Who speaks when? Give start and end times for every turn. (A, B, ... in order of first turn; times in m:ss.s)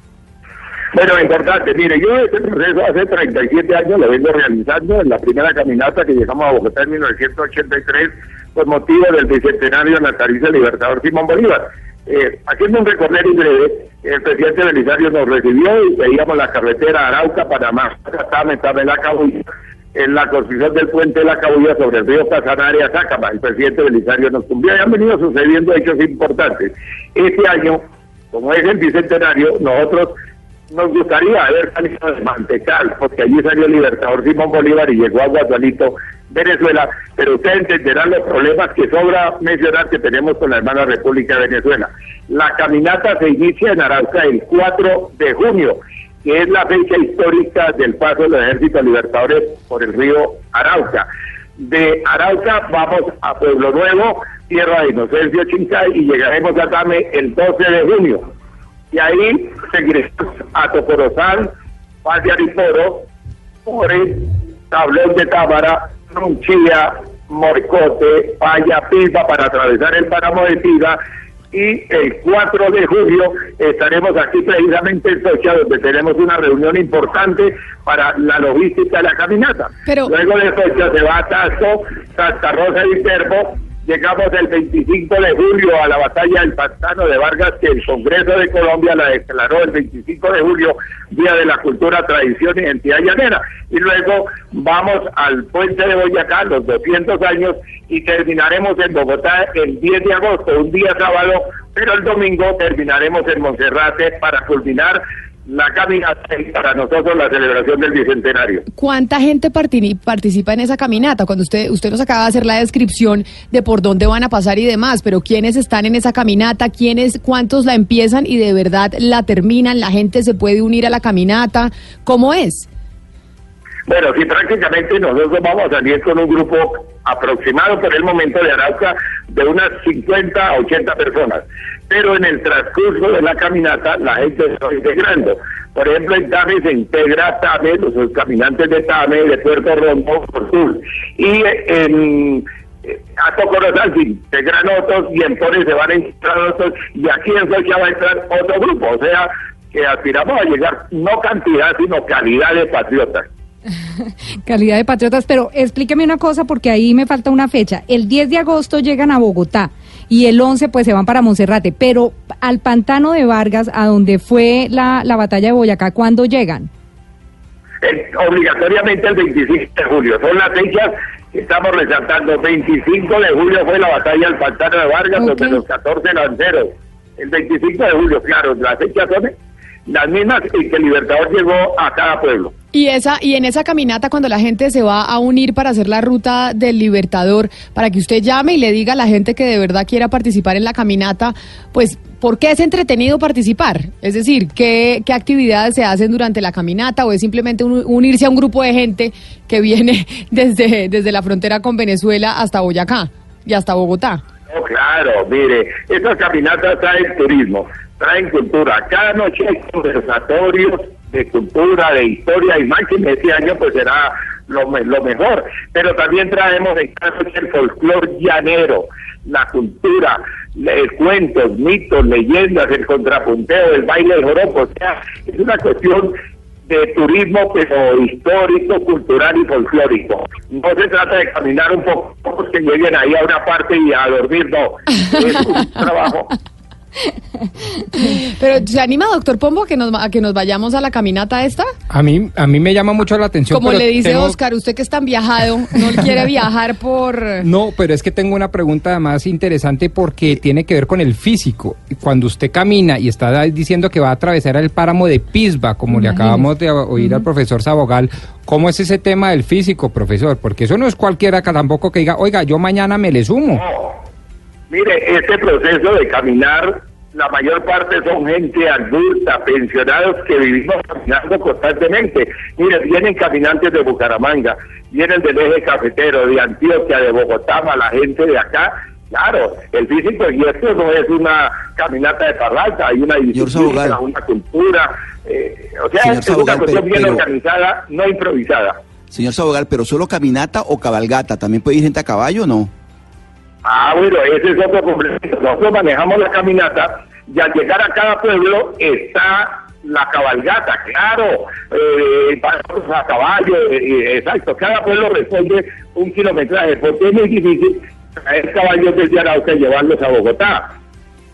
0:00.9-0:30.2 A
0:30.7-0:51.1 A
0:51.6-0:58.2 A
0:58.9-1:01.5 A
1:02.0-1:03.1 A
1:03.6-1:11.0 A
1:11.5-1:48.6 A
1:19.9-1:20.1 B
1:48.8-2:02.7 B
2:03.9-2:33.3 A
2:34.5-2:46.7 C
2:47.8-2:59.4 A
2:55.2-2:55.6 C
2:59.9-3:02.5 A
3:02.7-3:24.2 B
3:24.5-3:46.2 A
3:46.7-3:56.4 A
3:57.9-4:01.7 B
4:01.9-4:04.4 D
4:03.5-4:07.5 B
4:07.4-4:23.6 D
4:23.6-4:24.0 A
4:24.7-4:48.8 A
4:43.3-4:44.0 E
4:46.0-4:47.2 E
4:49.1-4:52.7 E
4:53.6-5:10.7 A